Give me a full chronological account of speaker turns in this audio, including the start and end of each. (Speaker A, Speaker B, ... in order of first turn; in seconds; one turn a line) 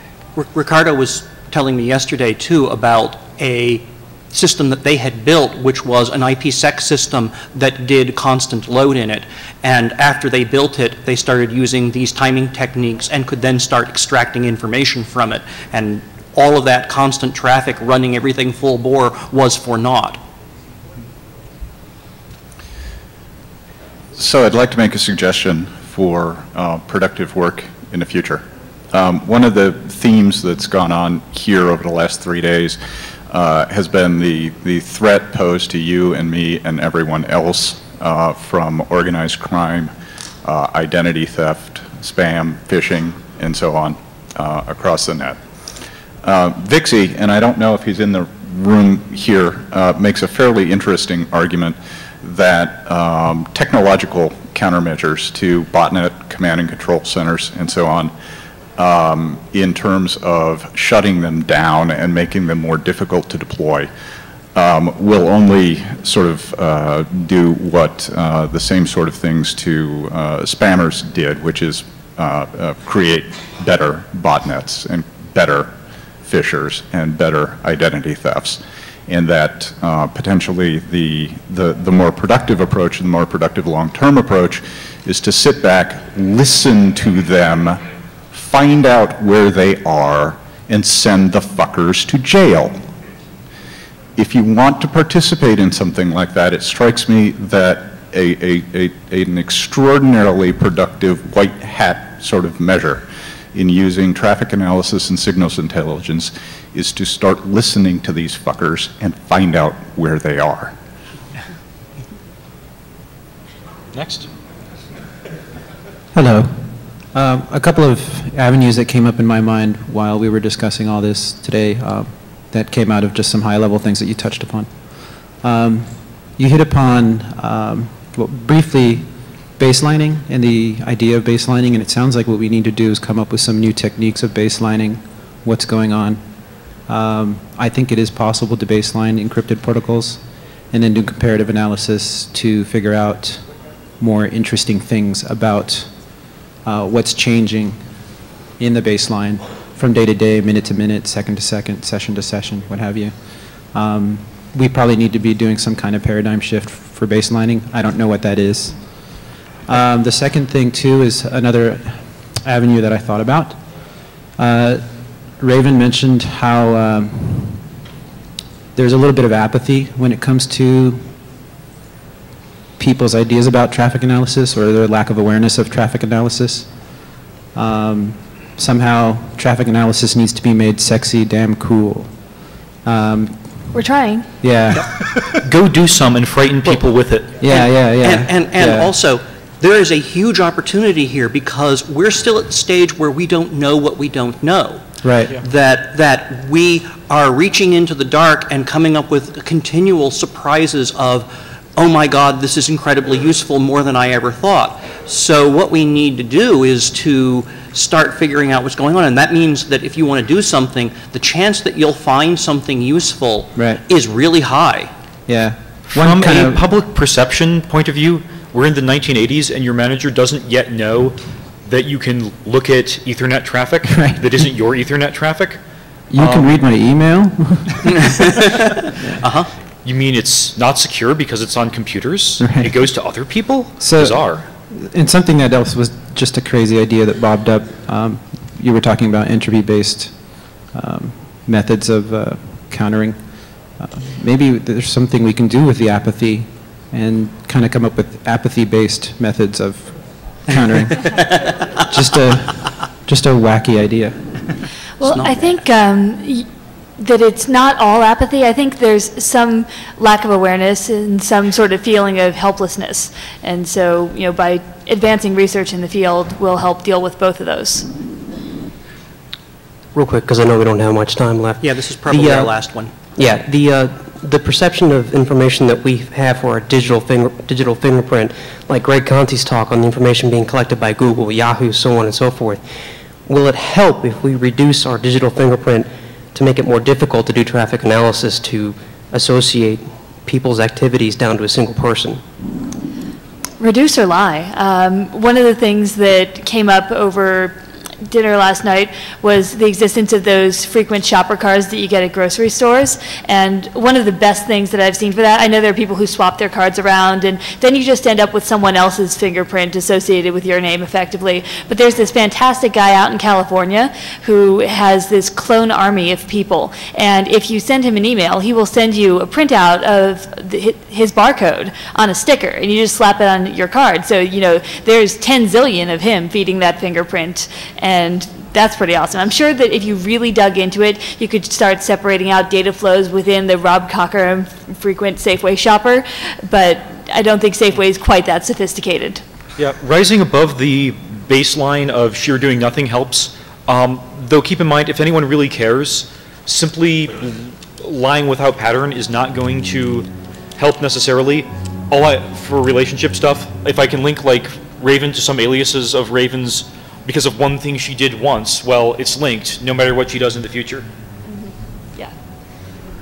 Speaker A: 0.4-20.2
Speaker B: 24.1-39.9
Speaker B: 40.4-45.4
Speaker B: 46.2-58.1
Speaker B: 58.8-63.9
Speaker B: 64.5-92.9
Speaker B: 94.2-110.8
Speaker C: 113.9-114.3
Speaker D: 116.1-167.7
Speaker D: 168.8-171.2
Speaker D: 172.8-183.7
Speaker E: 183.7-184.4
Speaker D: 184.4-184.9
Speaker C: 185.4-187.3
Speaker A: 187.4-214.9
Speaker D: 187.4-188.9
Speaker D: 195.0-195.3
Speaker D: 213.6-213.8
Speaker D: 215.3-216.6
Speaker C: 215.9-225.6
Speaker D: 223.9-224.4
Speaker D: 226.1-228.1
Speaker C: 226.2-226.6
Speaker A: 229.2-229.5
Speaker C: 229.8-234.4
Speaker D: 232.4-232.7
Speaker D: 233.8-251.2
Speaker A: 251.1-251.5
Speaker D: 251.9-254.4
Speaker E: 255.0-256.5
Speaker A: 255.0-255.5
Speaker E: 257.0-267.9
Speaker F: 269.9-272.6
Speaker A: 271.6-272.9
Speaker F: 273.2-282.6
Speaker F: 283.3-292.2
Speaker E: 293.6-339.2
Speaker C: 339.6-360.9
Speaker E: 361.3-362.1